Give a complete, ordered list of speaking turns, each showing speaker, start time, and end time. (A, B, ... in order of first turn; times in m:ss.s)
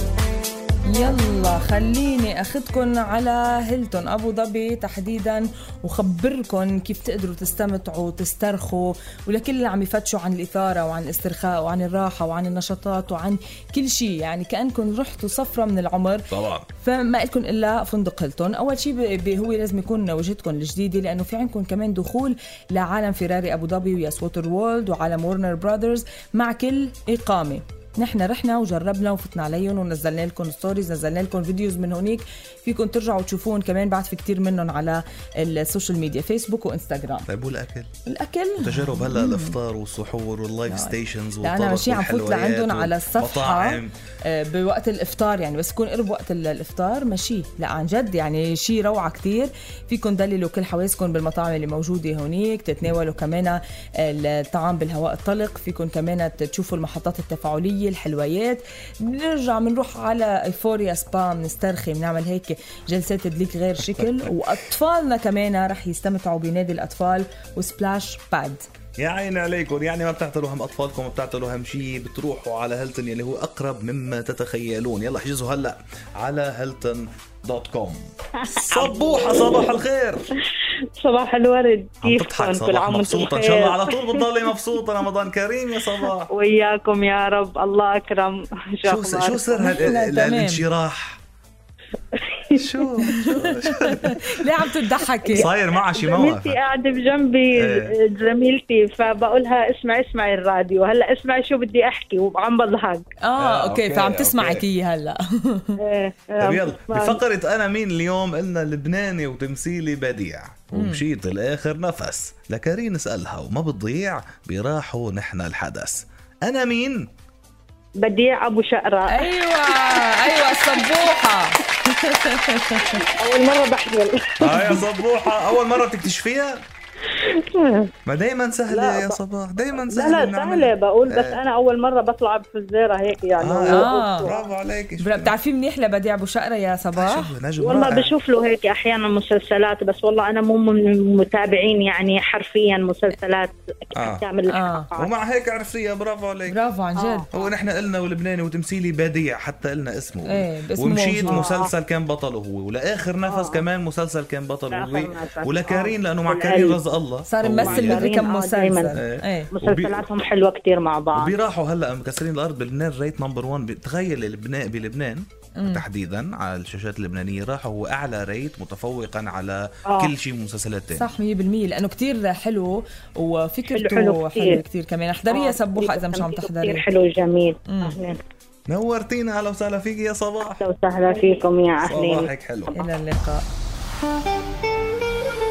0:00.9-0:37.3 A
0:16.3-0:16.7 B
0:37.3-0:37.9 B
0:38.0-0:39.6 A
0:38.6-0:43.9 B
0:40.7-1:08.6 A
1:03.8-1:04.4 B
1:09.0-1:20.3 B
1:18.4-1:19.5 C
1:21.0-1:24.2 C
1:22.0-1:26.3 B
1:26.0-1:29.8 C
1:28.8-1:31.2 B
1:29.6-1:30.6 A
1:32.1-1:32.7 C
1:32.5-1:34.3 B
1:33.0-1:35.5 A
1:35.3-1:43.0 C
1:35.3-1:36.6 B
1:37.5-1:37.9 B
1:43.2-1:45.8 A
1:43.4-1:44.6 B
1:45.8-1:47.2 C
1:46.4-1:57.1 B
1:50.7-1:51.0 A
1:58.0-2:00.1 C
1:59.1-2:02.9 A
2:02.9-2:04.8 C
2:04.4-2:06.6 B
2:07.1-2:07.9 C
2:08.0-2:11.4 B
2:08.7-2:09.2 C
2:09.8-2:14.5 C
2:13.4-2:15.3 B
2:13.7-2:14.3 A
2:15.0-2:17.3 A
2:16.9-2:18.1 B
2:17.6-2:25.1 C
2:23.9-2:24.2 B
2:24.5-2:24.9 A
2:25.0-2:26.6 B
2:26.5-2:27.3 A
2:27.0-2:27.5 C
2:27.3-2:38.2 B
2:30.3-2:31.4 A
2:31.2-2:31.7 C
2:33.3-2:33.6 C
2:34.7-2:36.8 C
2:37.3-2:39.5 A
2:37.5-2:41.3 C
2:38.9-2:40.0 B
2:41.1-2:51.1 B
2:45.6-2:45.8 A
2:50.9-2:56.8 A
2:53.7-2:54.6 C
2:55.3-2:58.2 C
2:57.7-2:58.0 A
2:58.7-3:00.6 B
3:00.6-3:02.9 C
3:01.8-3:02.7 B
3:02.7-3:03.4 A